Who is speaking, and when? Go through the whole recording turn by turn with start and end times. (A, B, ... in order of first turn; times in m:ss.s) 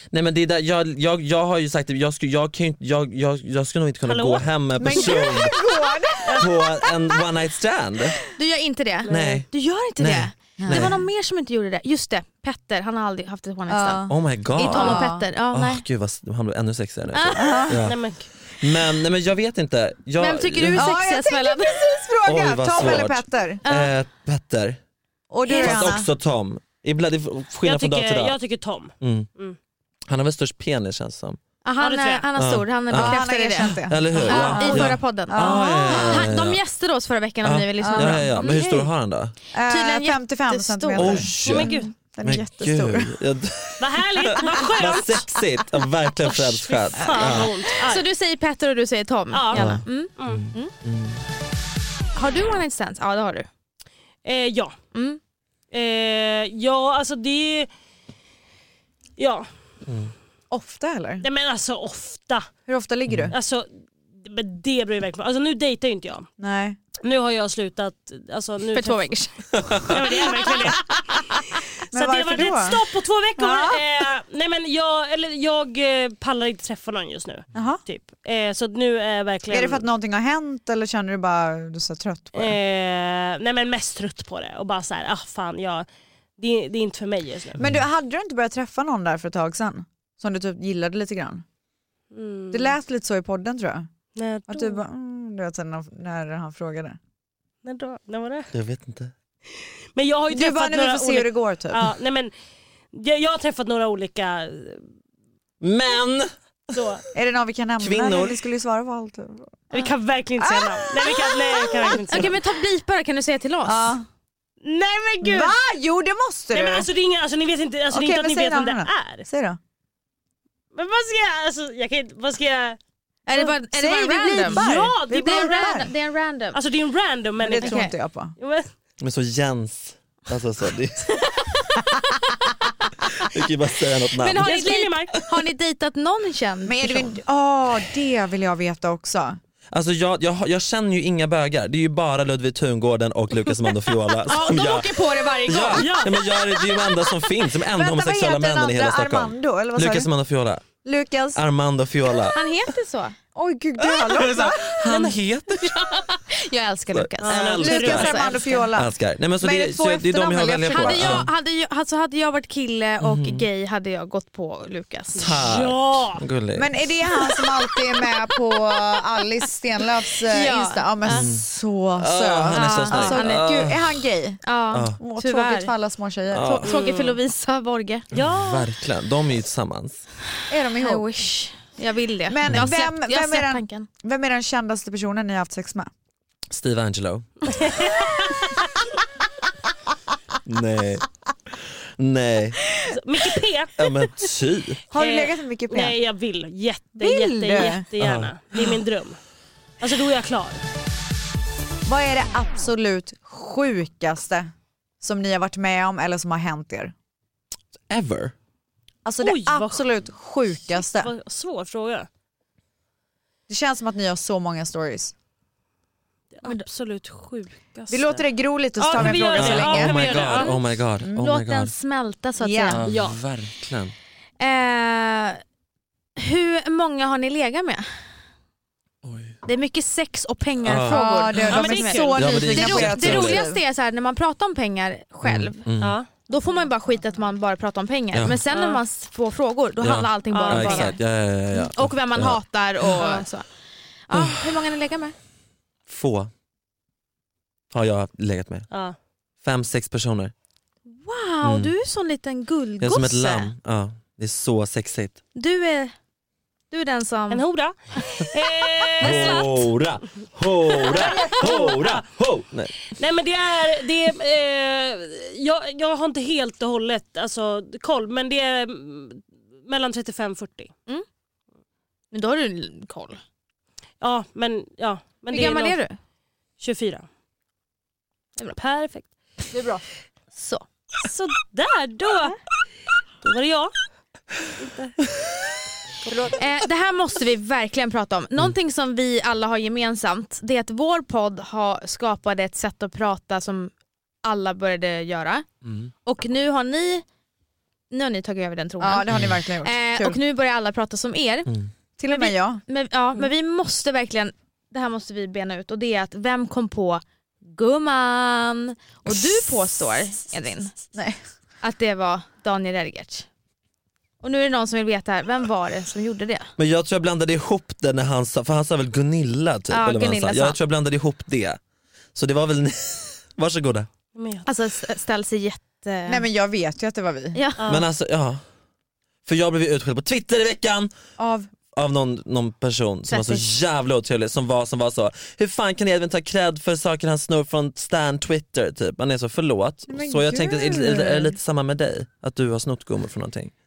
0:00.1-0:05.5 A
0:04.0-0:05.4 B
0:04.8-0:07.2 C
0:06.4-0:08.2 A
0:08.4-0:15.8 D
0:09.0-0:09.4 B
0:09.1-0:11.0 A
0:10.6-0:10.9 C
0:13.7-0:15.2 C
0:14.1-0:18.0 A
0:17.1-0:17.7 D
0:17.3-0:17.9 C
0:17.8-0:18.3 B
0:18.6-0:20.9 A
0:20.2-0:21.8 D
0:20.7-0:23.6 C
0:22.2-0:24.8 A
0:23.6-0:23.9 D
0:25.3-0:26.1 C
0:25.4-0:25.9 D
0:25.5-0:28.3 A
0:27.6-0:29.6 B
0:29.0-0:29.3 A
0:30.1-0:31.4 A
0:31.6-0:38.6 D
0:31.8-0:32.2 B
0:32.4-0:36.6 A
0:32.9-0:36.2 C
0:37.4-0:39.3 A
0:37.8-0:38.6 C
0:38.4-0:38.9 B
0:39.5-0:41.3 C
0:39.7-0:41.9 D
0:41.0-0:47.5 A
0:41.4-0:41.9 B
0:42.1-0:43.2 C
0:43.8-0:45.3 B
0:46.2-0:48.0 B
0:47.8-0:50.7 D
0:49.3-0:50.4 B
0:49.5-0:51.2 A
0:52.1-0:53.5 D
0:54.2-0:54.8 B
0:54.9-0:55.2 D
0:55.7-0:57.7 B
0:59.2-0:59.5 B
0:59.8-1:00.1 A
1:00.5-1:01.2 C
1:01.2-1:02.5 B
1:02.7-1:03.3 C
1:03.1-1:03.3 A
1:03.3-1:06.3 B
1:06.4-1:06.8 C
1:07.0-1:09.2 B
1:08.7-1:09.9 D
1:09.6-1:10.0 A
1:09.7-1:19.8 B
1:11.9-1:12.8 C
1:13.4-1:13.8 C
1:17.5-1:17.8 C
1:19.5-1:22.6 C
1:22.3-1:25.8 B
1:26.4-1:27.6 B
1:27.6-1:31.4 C
1:32.1-1:32.7 B
1:32.5-1:33.9 C
1:34.2-1:34.8 B
1:34.5-1:37.0 C
1:37.6-1:38.5 B
1:38.5-1:39.1 A
1:39.6-1:42.3 B
1:40.3-1:41.9 C
1:42.9-1:44.8 B
1:45.6-1:46.8 A
1:46.7-1:47.0 B
1:47.1-1:49.6 C
1:47.8-1:48.4 A
1:49.7-1:52.3 B
1:50.4-1:52.3 C
1:52.1-1:54.0 D
1:53.6-1:54.0 C
1:54.6-1:55.5 B
1:55.2-1:56.9 C
1:56.5-1:59.3 B
1:57.9-1:59.6 C
2:00.7-2:02.8 B
2:03.3-2:05.9 C
2:03.3-2:04.6 D
2:04.4-2:05.8 B
2:05.2-2:06.6 D
2:06.5-2:07.8 B
2:07.4-2:08.3 C
2:07.6-2:07.9 D
2:08.4-2:08.7 B
2:09.0-2:11.2 A
2:11.4-2:12.0 D
2:13.0-2:14.5 A
2:14.1-2:17.2 D
2:14.4-2:15.2 B
2:16.6-2:19.4 C
2:19.7-2:30.6 A
2:24.2-2:26.1 D
2:25.7-2:26.2 B
2:27.7-2:30.1 C
2:30.8-2:31.4 C
2:31.3-2:32.4 A
2:32.3-2:33.2 D
2:33.3-2:34.8 C
2:33.8-2:36.1 A
2:34.8-2:35.2 B
2:36.3-2:38.7 D
2:36.9-2:38.2 A
2:37.2-2:38.3 B
2:37.6-2:41.3 C
2:38.7-2:41.3 A
2:40.7-2:45.5 D
2:43.0-2:43.4 A
2:45.1-2:46.2 B
2:45.2-2:46.7 A
2:46.5-2:54.4 C
2:47.1-2:48.7 D
2:50.3-2:51.3 D
2:51.1-2:51.4 A
2:52.0-2:54.0 A
2:52.5-2:53.5 D
2:54.4-2:55.7 D
2:54.7-2:55.0 A
2:55.0-2:56.6 C
2:56.3-2:56.7 A
2:56.4-2:58.0 D
2:56.6-2:57.2 B
2:58.1-2:58.7 B
2:58.1-3:00.0 A
3:00.5-3:01.0 C
3:00.7-3:03.9 D
3:02.3-3:05.9 C
3:06.5-3:07.9 A
3:07.5-3:08.6 B
3:10.4-3:12.6 A
3:12.8-3:14.3 B
3:13.8-3:14.8 A
3:14.9-3:15.9 C
3:14.9-3:19.2 B
3:17.0-3:17.8 C
3:18.0-3:18.8 A
3:19.8-3:20.6 B
3:21.8-3:24.5 C
3:25.0-3:26.9 C
3:27.9-3:28.3 A
3:29.0-3:31.1 C
3:29.2-3:29.8 B
3:30.7-3:32.1 B
3:33.5-3:35.1 C
3:36.3-3:38.2 B
3:37.9-3:40.0 C
3:38.8-3:40.6 B
3:38.9-3:41.7 A
3:40.1-3:40.6 D
3:41.1-3:42.8 D
3:42.4-3:42.8 C
3:42.7-3:43.9 A
3:42.8-3:43.2 B
3:44.4-3:45.4 D
3:46.2-3:47.9 D
3:49.0-3:49.4 A
3:49.4-3:55.6 D
3:50.6-3:51.4 A
3:50.8-3:53.6 C
3:51.5-3:52.4 B
3:52.2-3:53.4 A
3:55.2-3:56.0 A
3:55.8-3:56.1 B
3:56.3-4:01.0 D
3:58.1-3:58.4 A
3:58.5-3:58.8 B
3:59.8-4:02.4 A
4:00.3-4:01.0 B
4:01.5-4:03.4 D
4:02.9-4:03.2 B
4:04.1-4:05.1 D
4:04.1-4:04.6 A
4:05.9-4:06.3 A
4:07.7-4:08.7 A
4:08.7-4:08.9 B
4:09.4-4:10.3 A
4:10.9-4:13.5 D
4:11.4-4:11.7 A
4:12.8-4:15.2 A
4:15.4-4:15.9 D
4:16.7-4:17.4 D
4:17.3-4:19.6 B
4:19.0-4:19.6 D
4:19.0-4:22.9 A
4:20.8-4:22.0 B
4:20.9-4:21.6 C
4:23.0-4:30.7 B
4:32.1-4:33.2 D
4:34.0-4:35.8 B
4:35.3-4:36.0 D
4:36.6-4:37.0 B
4:38.4-4:39.1 B
4:39.5-4:39.8 C
4:40.3-4:40.6 D
4:41.0-4:42.4 B
4:43.2-4:43.7 B
4:44.6-4:45.0 B
4:46.0-4:46.3 B
4:46.3-4:55.4 D
4:55.6-4:55.9 A
4:56.0-4:57.0 D
4:57.9-5:01.5 D
4:58.8-5:00.2 C
5:02.0-5:02.6 C
5:02.1-5:10.8 D
5:10.9-5:11.2 C
5:11.6-5:13.2 D
5:14.2-5:16.5 D
5:16.6-5:21.6 A
5:19.7-5:20.6 D
5:22.1-5:23.9 A
5:24.1-5:24.5 B
5:24.4-5:26.2 D
5:26.1-5:27.4 C
5:27.3-5:27.6 D
5:27.6-5:27.9 B
5:27.7-5:28.4 A
5:29.2-5:30.9 A
5:31.2-5:31.5 C
5:31.7-5:43.5 A
5:33.1-5:33.5 D
5:39.9-5:41.4 C